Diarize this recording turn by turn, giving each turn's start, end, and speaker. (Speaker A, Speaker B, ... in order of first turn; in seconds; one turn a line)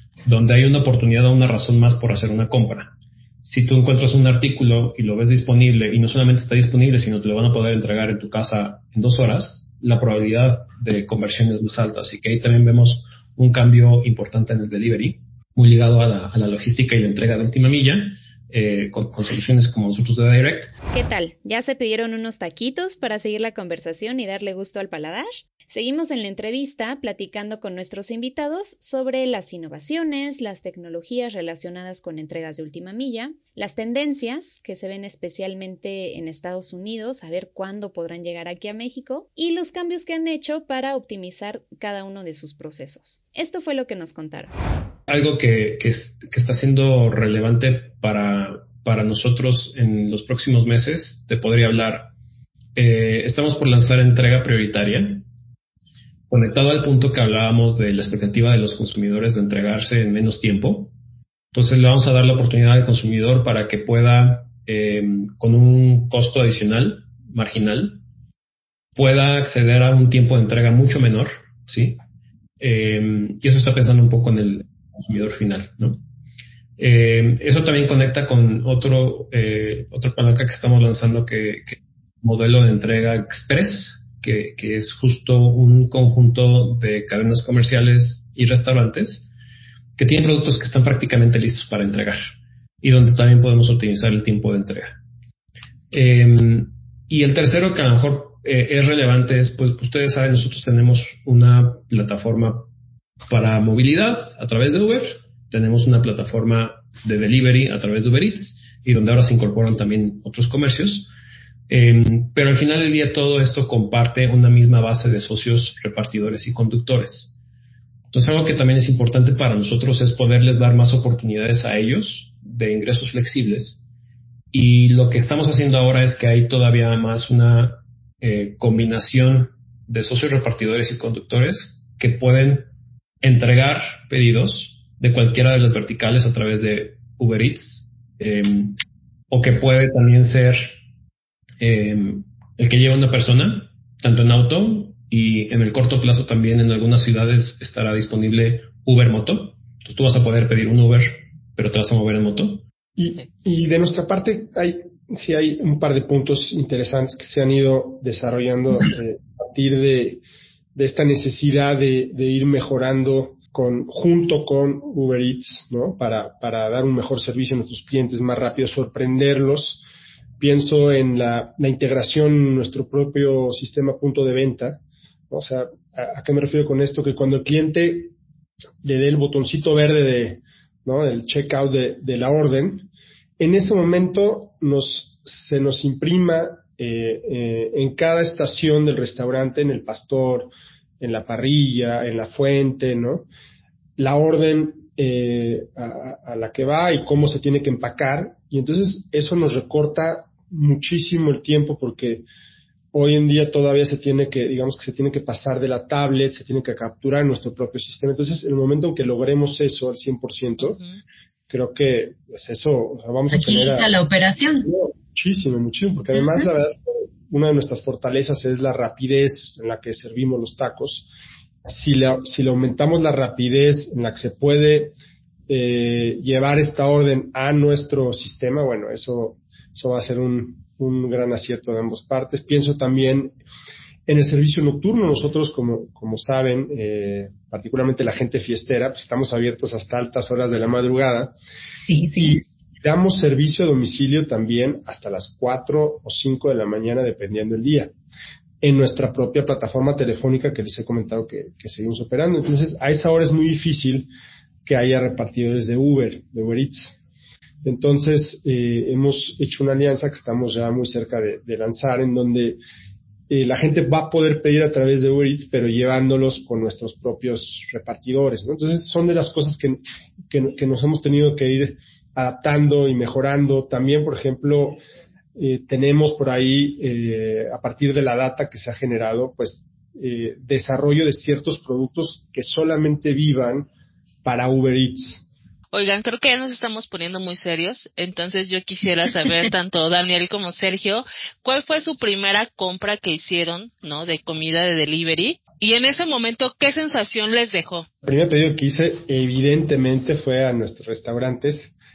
Speaker A: 0.2-20.7
Speaker B: 20.9-44.5
Speaker A: 45.1-52.1
Speaker A: 52.8-55.2
Speaker A: 56.3-60.9
Speaker A: 61.5-68.0
Speaker A: 68.9-72.0
Speaker A: 72.6-76.0
Speaker A: 76.8-89.3
Speaker A: 90.0-95.0
Speaker A: 95.9-102.7
Speaker A: 103.3-111.1
Speaker A: 111.7-117.3
Speaker A: 118.1-123.8
Speaker A: 124.5-132.7
Speaker A: 133.2-138.8
Speaker A: 139.3-140.8
Speaker A: 141.6-152.6
Speaker C: 153.0-160.2
Speaker C: 160.7-169.8
Speaker C: 170.4-178.1
Speaker C: 178.8-182.9
Speaker C: 183.4-193.3
Speaker C: 194.0-202.2
Speaker C: 202.9-210.8
Speaker D: 210.6-210.9
Speaker C: 211.5-213.9
Speaker E: 213.3-214.7
Speaker C: 214.6-221.1
Speaker E: 216.2-216.5
Speaker C: 221.7-224.9
Speaker C: 225.5-233.3
Speaker C: 234.1-241.3
Speaker E: 241.9-242.4
Speaker C: 242.2-247.9
Speaker C: 248.6-254.1
Speaker C: 254.6-257.0
Speaker C: 257.6-262.6
Speaker C: 263.3-274.8
Speaker C: 275.3-283.7
Speaker C: 284.2-285.2
Speaker D: 285.7-297.9
Speaker C: 298.0-301.7